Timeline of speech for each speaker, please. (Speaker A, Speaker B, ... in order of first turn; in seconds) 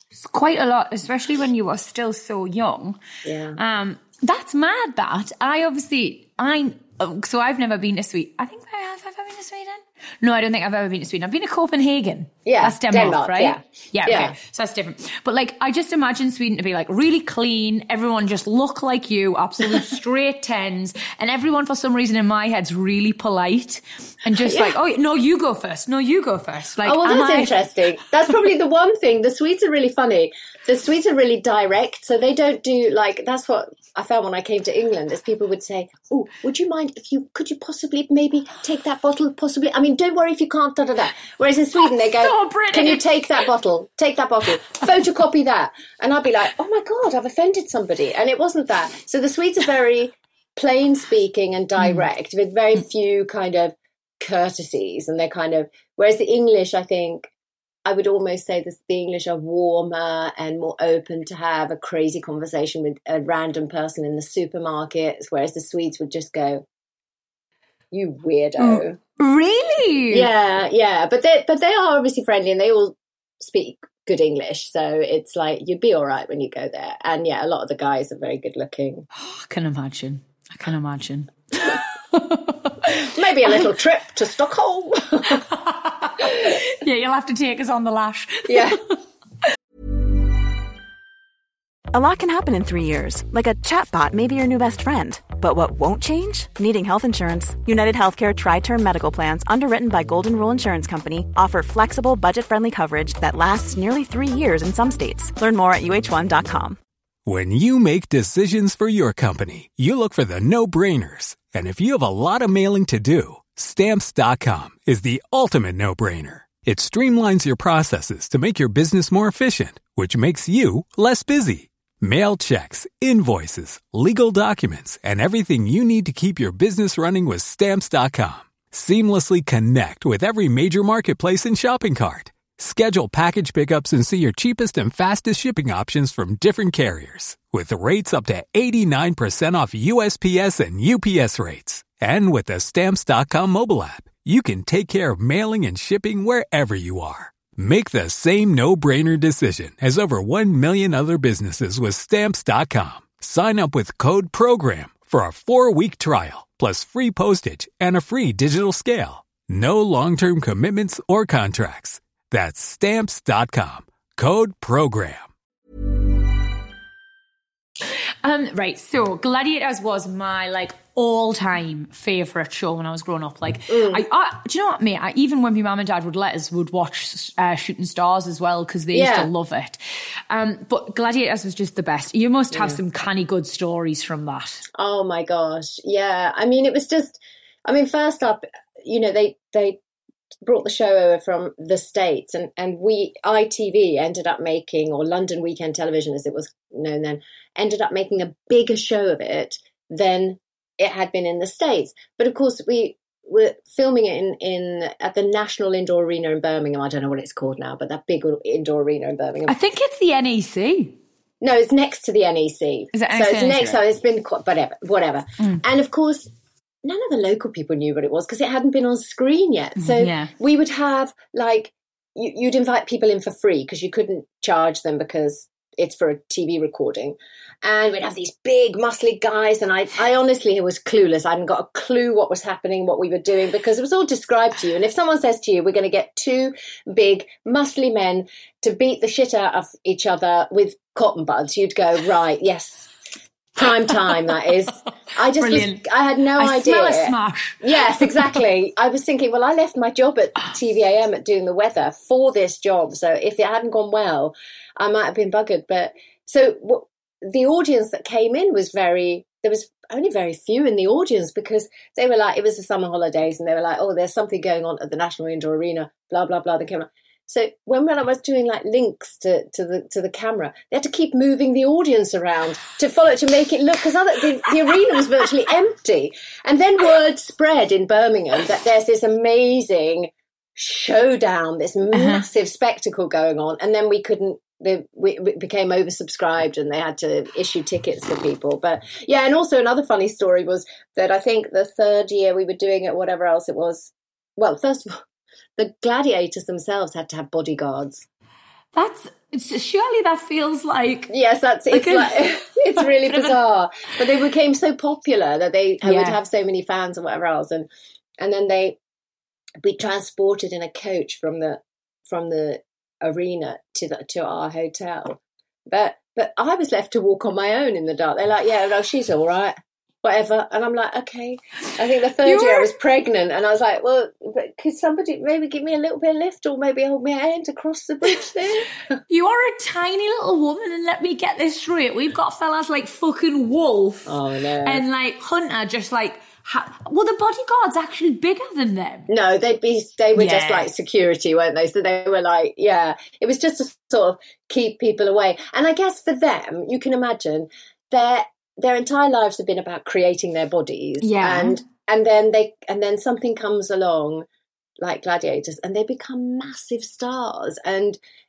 Speaker A: 0.1-3.0, 3.6-27.6, 42.0-43.1, 68.6-70.3, 79.1-82.9, 85.6-88.8, 168.2-184.6, 209.5-211.0, 212.9-213.8, 219.8-220.3, 245.3-248.3, 281.9-282.2, 298.7-301.1, 301.7-303.4, 305.8-306.2, 322.2-322.7, 329.1-339.1, 340.2-340.7, 351.0-351.6
Speaker B: 3.2-3.6, 12.4-14.4, 24.4-24.8, 26.8-57.3, 57.9-66.7, 67.9-69.0, 70.1-79.1, 83.0-85.5, 88.5-88.8, 173.7-174.0, 178.9-179.3, 182.5-182.8, 184.8-189.8, 190.4-209.6, 211.4-216.3, 216.8-242.9, 243.6-295.0, 295.6-298.1, 301.1-307.7, 308.2-308.8, 309.6-328.7, 334.1-334.8, 339.1-354.3, 354.8-358.0
Speaker C: 91.9-106.8
Speaker D: 107.3-165.3